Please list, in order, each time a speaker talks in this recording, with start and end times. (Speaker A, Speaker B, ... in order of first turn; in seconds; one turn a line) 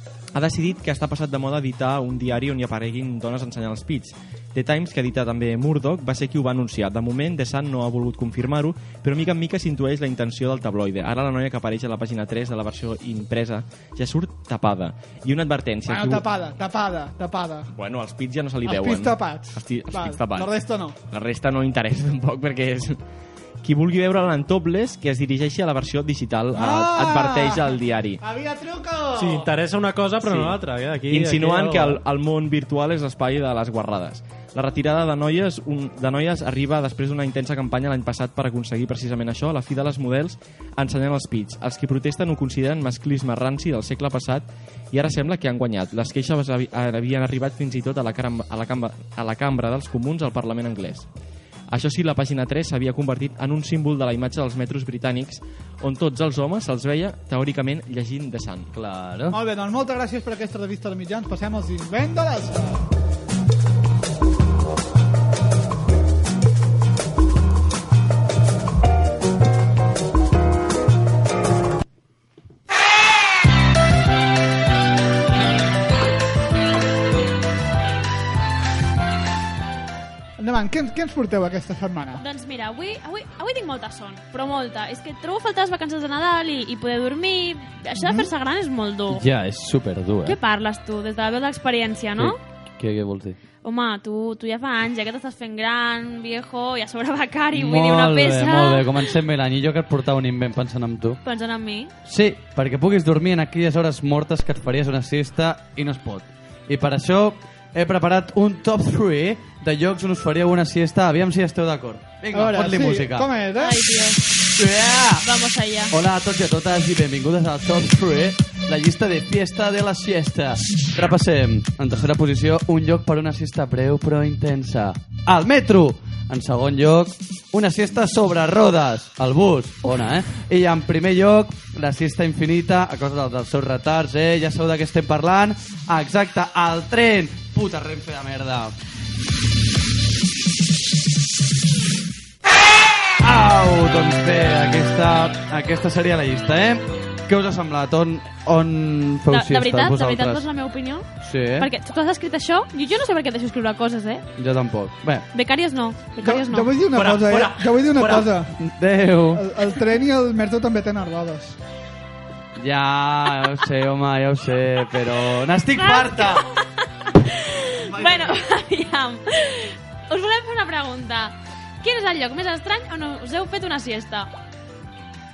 Speaker A: 0.3-16.2
Speaker B: 15.9-17.7
Speaker A: 17.7-20.5
Speaker B: 18.6-20.9
Speaker A: 21.1-23.0
Speaker A: 23.6-28.2
Speaker B: 26.6-29.5
Speaker C: 29.1-32.0
Speaker A: 30.2-51.1
Speaker A: 51.7-58.7
Speaker D: 58.7-59.3
Speaker B: 59.3-62.9
Speaker B: 80.4-82.2
Speaker E: 82.2-89.2
Speaker B: 88.0-88.3
Speaker D: 89.1-90.4
Speaker E: 90.2-92.4
Speaker D: 92.2-93.4
Speaker E: 93.6-98.9
Speaker D: 97.5-101.2
Speaker E: 101.2-101.9
Speaker D: 102.0-113.3
Speaker B: 112.3-113.8
Speaker E: 113.6-114.2
Speaker D: 114.5-115.3
Speaker E: 115.2-115.9
Speaker D: 115.9-138.7
Speaker D: 143.2-150.4
Speaker E: 149.3-154.2
Speaker D: 151.2-151.7
Speaker D: 154.4-155.2
Speaker E: 155.3-156.7
Speaker B: 156.2-158.6
Speaker C: 156.9-158.3
Speaker D: 158.6-159.4
Speaker B: 159.3-161.6
Speaker D: 162.6-166.4
Speaker E: 165.8-174.3